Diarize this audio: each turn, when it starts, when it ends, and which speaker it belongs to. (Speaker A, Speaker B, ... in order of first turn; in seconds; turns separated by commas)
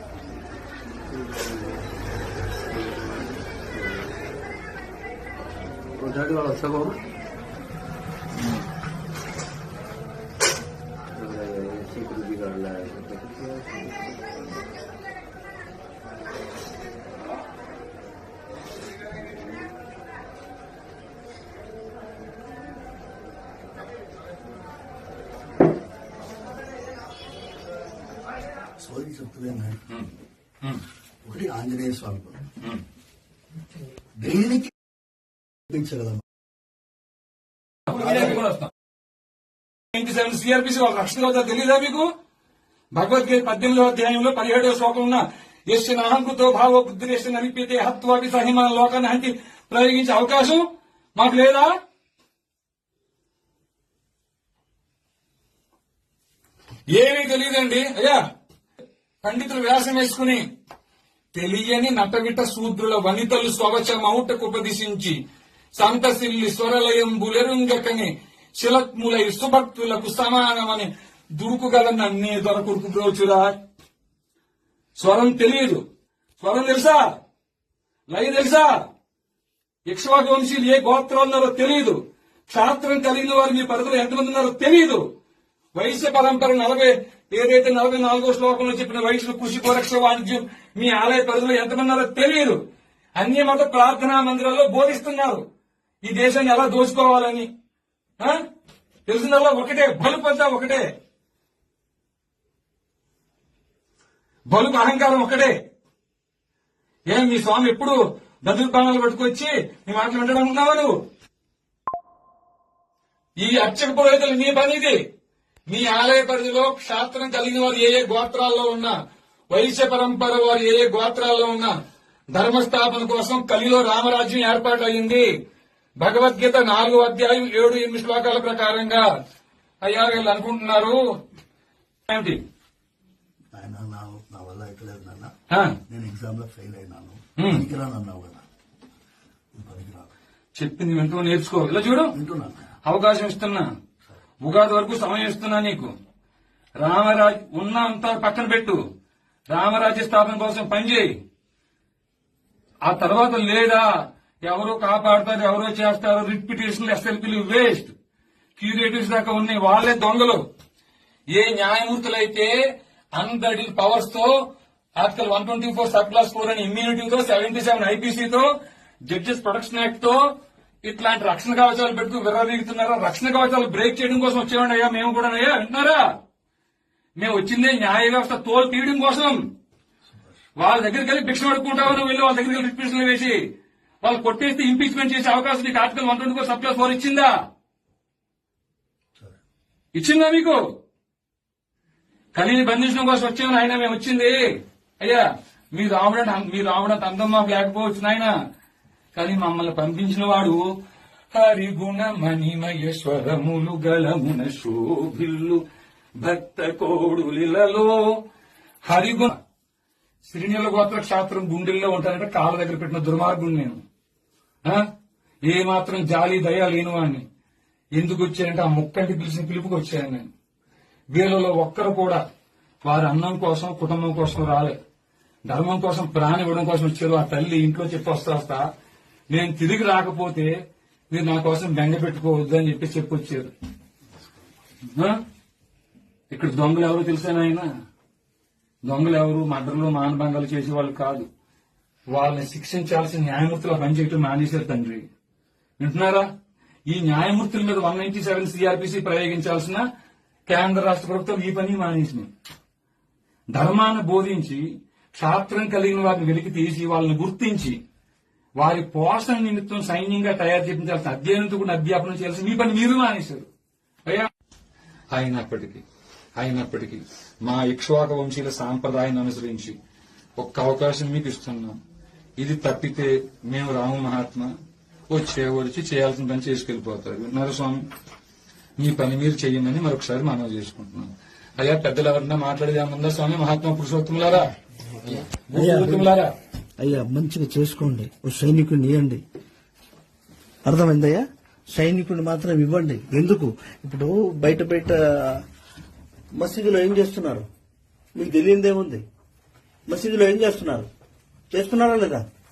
Speaker A: 1.1-1.8, Speaker A: 2.7-4.1, Speaker A: 5.9-7.0, Speaker A: 11.1-14.5, Speaker B: 28.8-29.8, Speaker B: 31.2-32.5, Speaker B: 34.2-34.7, Speaker B: 35.7-36.2, Speaker C: 37.9-38.7, Speaker C: 39.9-42.1, Speaker C: 43.0-50.6, Speaker C: 51.2-51.7, Speaker C: 56.9-58.2, Speaker C: 59.2-60.4, Speaker C: 61.4-65.2, Speaker C: 65.8-73.6, Speaker C: 75.0-75.8, Speaker C: 76.4-77.1, Speaker C: 78.1-78.8, Speaker C: 79.9-82.0, Speaker C: 82.5-85.0, Speaker C: 85.8-92.6, Speaker C: 93.2-95.4, Speaker C: 96.0-97.5, Speaker C: 99.1-100.8, Speaker C: 104.5-105.5, Speaker C: 107.1-111.0, Speaker C: 113.4-115.0, Speaker C: 115.7-119.0, Speaker C: 119.5-121.7, Speaker C: 122.3-125.3, Speaker C: 126.0-129.1, Speaker C: 129.8-131.0, Speaker C: 132.1-132.4, Speaker B: 133.5-135.3, Speaker C: 135.5-135.8, Speaker B: 135.9-138.4, Speaker C: 137.4-137.7, Speaker B: 139.6-140.1, Speaker C: 140.6-142.1, Speaker B: 142.1-142.7, Speaker C: 142.8-143.7, Speaker C: 144.4-145.9, Speaker C: 146.8-148.8, Speaker C: 149.5-151.1, Speaker C: 152.8-153.9, Speaker C: 154.4-157.9, Speaker C: 158.6-160.4, Speaker C: 161.3-162.5, Speaker C: 163.2-164.4, Speaker C: 165.0-168.5, Speaker C: 169.1-170.2, Speaker C: 170.8-176.1, Speaker C: 177.2-179.4, Speaker C: 180.6-183.4, Speaker C: 184.0-187.3, Speaker C: 190.0-190.6, Speaker C: 192.3-194.4, Speaker C: 195.0-198.3, Speaker C: 199.1-200.6, Speaker C: 201.3-205.6, Speaker C: 206.2-208.0, Speaker C: 208.9-209.4, Speaker C: 210.3-213.8, Speaker C: 215.5-217.2, Speaker C: 218.0-220.3, Speaker C: 221.1-222.2, Speaker C: 222.8-224.8, Speaker C: 225.5-228.7, Speaker C: 229.3-230.5, Speaker C: 231.1-233.5, Speaker C: 234.9-235.2, Speaker C: 236.3-237.7, Speaker C: 238.9-241.3, Speaker C: 242.1-245.1, Speaker C: 245.8-246.3, Speaker C: 246.9-249.8, Speaker C: 250.5-252.3, Speaker C: 253.5-254.6, Speaker C: 255.2-257.8, Speaker C: 258.6-263.5, Speaker C: 265.1-265.8, Speaker C: 266.4-269.8, Speaker C: 270.4-271.8, Speaker C: 272.4-274.5, Speaker C: 275.1-277.8, Speaker C: 278.8-284.5, Speaker C: 285.1-286.3, Speaker B: 285.5-286.1, Speaker B: 286.8-289.2, Speaker B: 290.6-295.4, Speaker B: 296.4-297.5, Speaker B: 298.2-299.0, Speaker B: 299.9-300.9, Speaker B: 301.5-302.2